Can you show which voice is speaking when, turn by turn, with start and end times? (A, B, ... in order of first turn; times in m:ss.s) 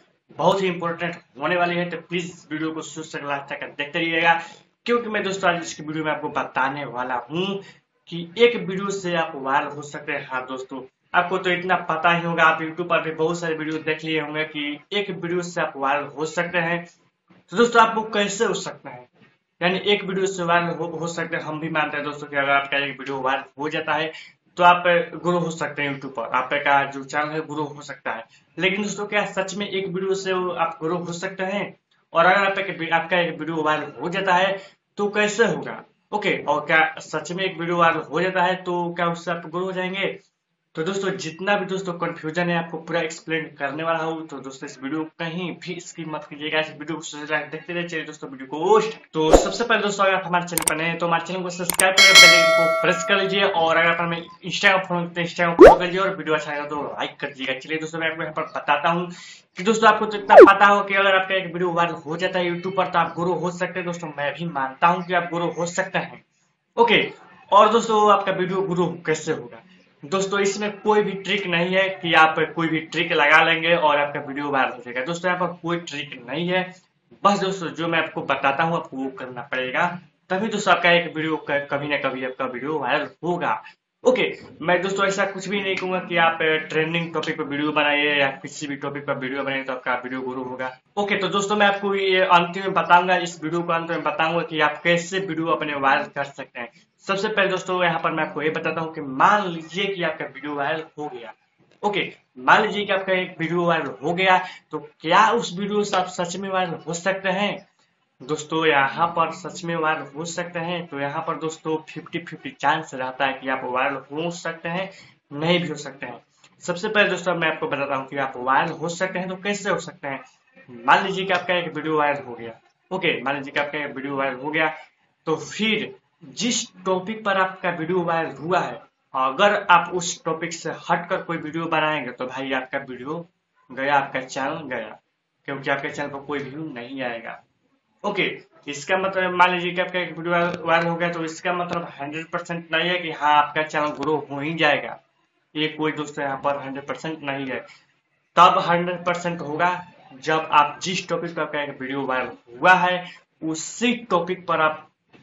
0:00.4-0:16.9 A
0:17.5-0:19.1 A
0:19.6-0:40.2 A
0:40.7-1:06.2 A
1:06.8-1:47.6 A
1:48.2-2:17.4 A
2:18.0-2:25.0 A
2:25.5-2:27.6 A
2:28.3-2:34.9 A